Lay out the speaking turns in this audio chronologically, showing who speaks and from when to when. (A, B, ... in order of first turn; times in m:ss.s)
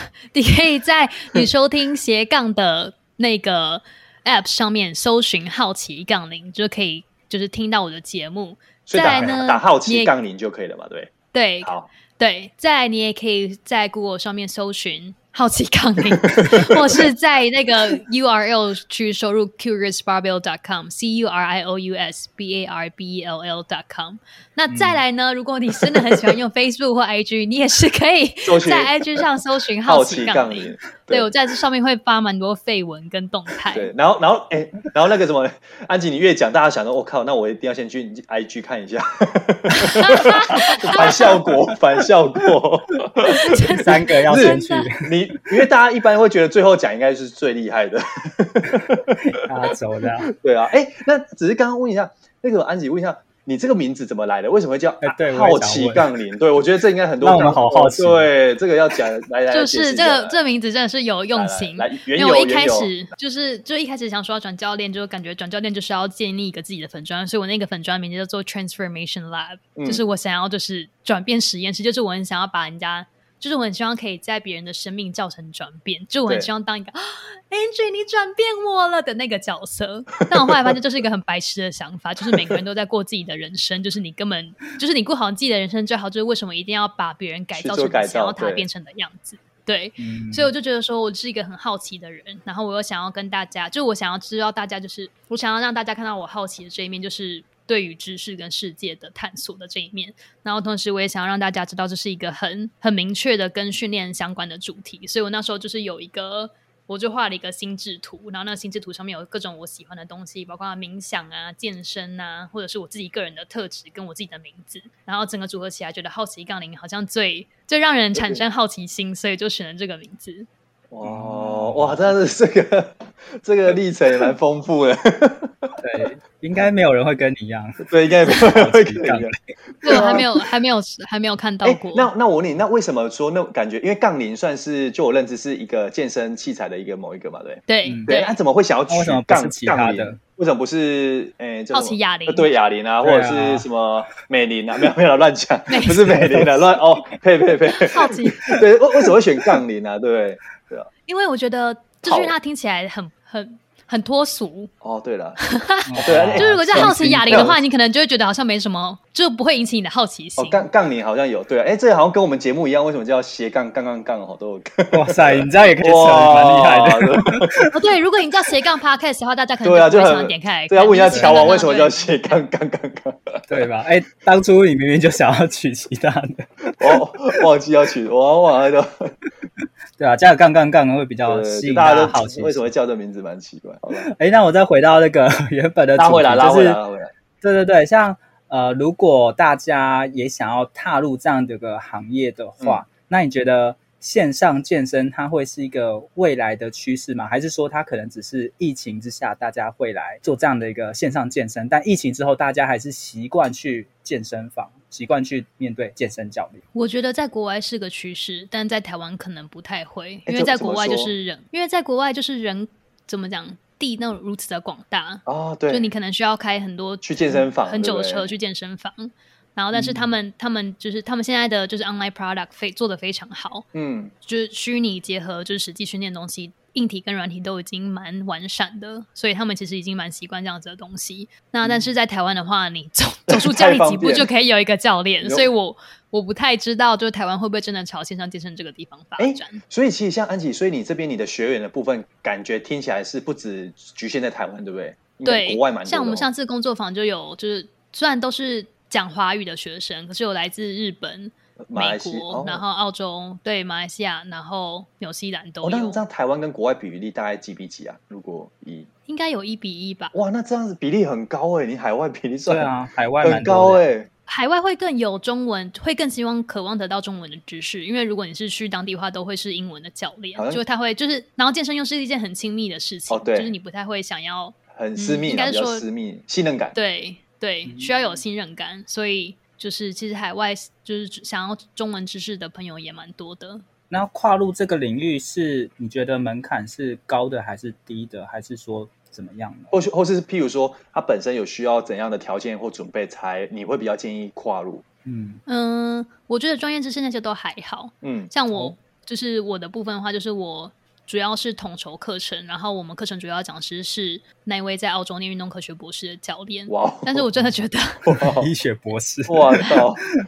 0:00.3-0:10.1 A
0:08.9-0:11.9 B
0:11.3-0:33.9 A
0:16.6-0:17.0 B
0:24.7-0:25.0 C
0:28.4-0:29.2 B
0:29.8-0:31.3 B
0:33.7-0:49.2 B
0:39.8-0:41.4 A
0:43.3-0:44.9 A
0:43.8-0:45.1 C
0:49.2-0:50.3 C
0:50.3-1:00.4 B
0:55.0-0:56.1 C
0:57.2-0:58.3 C
0:59.5-2:00.5 A
1:01.3-1:02.9 B
1:09.8-1:10.0 B
1:20.5-1:20.7 B
1:22.3-1:22.6 B
1:27.5-1:28.7 B
1:30.0-1:30.5 C
1:58.1-1:58.4 B
2:00.9-2:05.7 B
2:01.0-2:02.1 C
2:05.8-2:09.3 C
2:07.8-2:10.3 B
2:09.8-2:12.1 A
2:09.9-2:10.2 C
2:11.6-2:30.9 B
2:17.7-2:18.4 A
2:17.8-2:18.1 C
2:18.9-2:20.2 C
2:21.7-2:22.5 A
2:23.0-2:23.6 C
2:25.7-2:26.2 A
2:26.1-2:26.8 C
2:27.7-2:28.5 A
2:31.1-2:34.7 A
2:32.0-2:32.4 B
2:34.8-2:35.4 B
2:35.4-2:40.6 A
2:35.8-2:37.5 C
2:36.0-2:37.6 B
2:40.4-2:47.7 B
2:44.9-2:47.7 C
2:47.7-2:52.4 A
2:49.6-2:53.6 B
2:51.1-2:51.5 C
2:53.5-2:56.5 C
2:56.8-2:59.1 B
3:00.0-3:02.7 C
3:01.2-3:04.1 B
3:04.0-3:06.8 C
3:06.0-3:07.1 B
3:07.4-3:26.6 C
3:26.7-3:43.7 A
3:30.3-3:31.1 B
3:35.2-3:35.9 B
3:37.0-3:38.3 B
3:39.7-3:40.1 C
3:43.7-3:44.1 B
3:44.2-3:59.6 A
3:53.3-3:54.3 B
3:55.2-3:55.5 B
3:59.2-4:06.3 B
4:05.2-4:16.0 A
4:11.6-4:12.6 B
4:15.6-4:18.9 B
4:19.1-4:20.1 A
4:20.1-4:22.7 B
4:22.5-4:23.8 C
4:23.2-4:24.1 B
4:24.3-4:35.8 A
4:30.3-4:30.6 B
4:33.1-4:33.5 B
4:34.7-4:36.8 B
4:36.7-4:43.6 A
4:37.7-4:38.0 C
4:43.9-4:49.7 C
4:49.7-4:54.8 B
4:55.0-4:55.4 C
4:55.5-5:08.1 A
4:58.0-4:58.3 B
5:06.7-5:07.3 B
5:08.0-5:08.5 B
5:08.4-5:09.8 C
5:09.3-5:10.0 B